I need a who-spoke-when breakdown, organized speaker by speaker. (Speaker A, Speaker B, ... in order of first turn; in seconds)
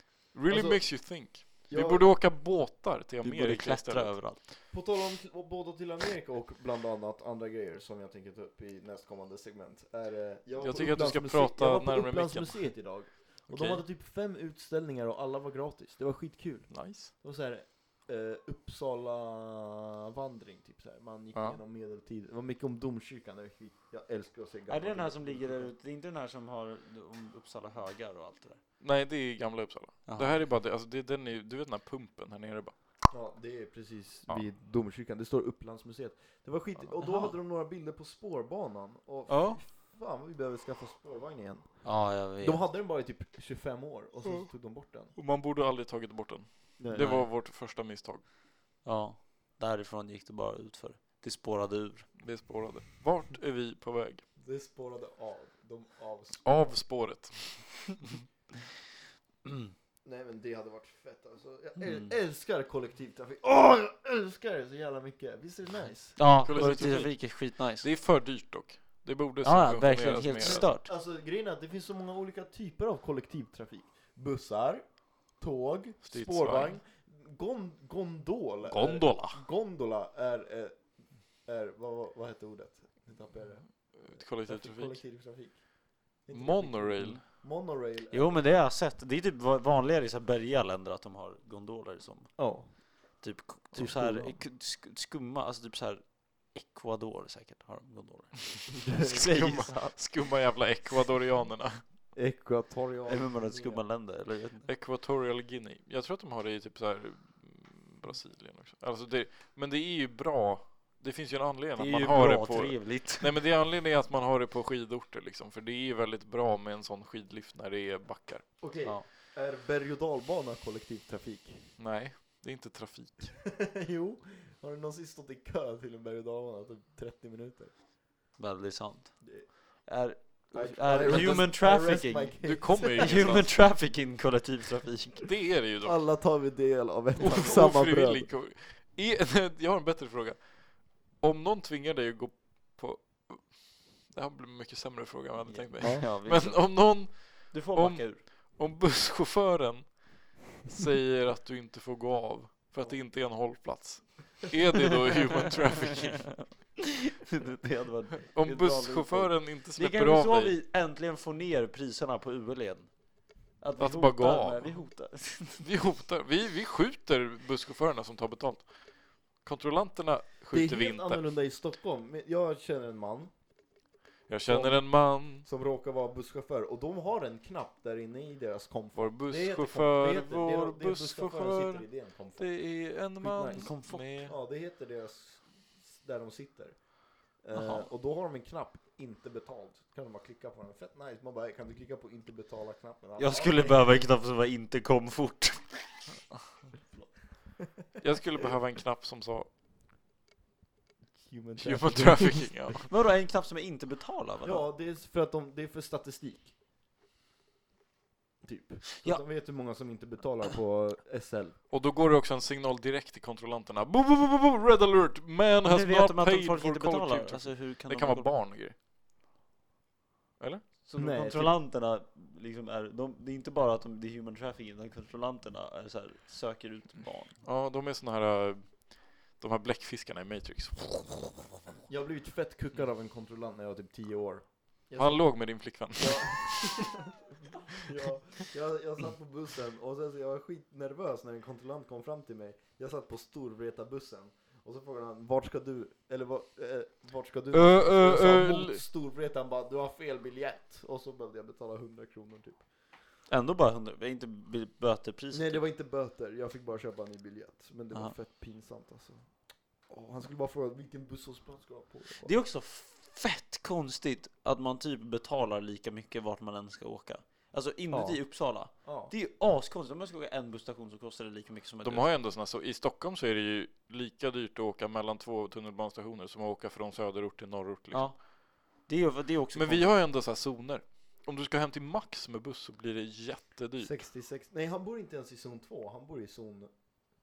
Speaker A: 0.3-4.2, 10.6-12.7, 16.7-17.1, 28.8-32.7, 39.3-39.6, 44.2-44.5, 45.1-48.2, 52.2-54.2, 56.4-58.2, 66.4-70.7, 76.0-76.8, 78.6-79.4, 83.8-85.0, 86.3-87.2, 99.0-101.8, 104.6-118.5, 121.8-123.4, 131.0-131.5, 132.4-133.5, 135.2-135.9, 137.2-156.3, 158.3-160.6, 163.8-164.8, 165.6-168.7, 169.3-171.2, 174.3-175.4, 178.9-184.3, 198.0-199.5, 201.6-202.8, 211.7-218.7, 220.4-220.6, 227.4-231.3, 235.0-236.8, 247.5-248.8, 271.8-278.1, 279.5-283.9
Speaker B: 0.5-2.1, 4.7-25.7, 33.1-45.1, 46.8-47.2, 54.4-56.6, 60.0-66.7, 70.4-88.5, 92.4-94.4, 102.1-103.8, 118.6-121.7, 123.4-127.7, 129.2-129.5, 130.5-133.4, 135.8-138.3, 145.8-146.1, 170.5-173.3, 174.4-182.6, 183.2-183.7, 184.2-193.9, 201.2-202.7, 204.4-206.5, 208.4-211.6, 221.0-221.6, 231.9-237.0, 237.7-252.6, 255.3-259.2, 259.9-262.3, 267.9-269.1, 283.8-286.7
Speaker C: 3.2-4.4, 13.5-13.8, 24.7-28.6, 30.1-30.4, 37.0-37.3, 41.8-42.6, 46.9-47.3, 48.8-52.1, 61.8-62.1, 66.2-67.9, 69.4-70.9, 88.1-92.4, 93.2-100.0, 103.1-104.7, 111.8-113.4, 128.4-135.3, 145.4-148.2, 157.0-162.9, 163.6-165.7, 183.2-184.0, 187.5-187.9, 193.2-196.0, 202.8-204.6, 215.6-218.3, 220.8-227.4, 253.3-255.6, 262.2-272.1, 277.9-279.9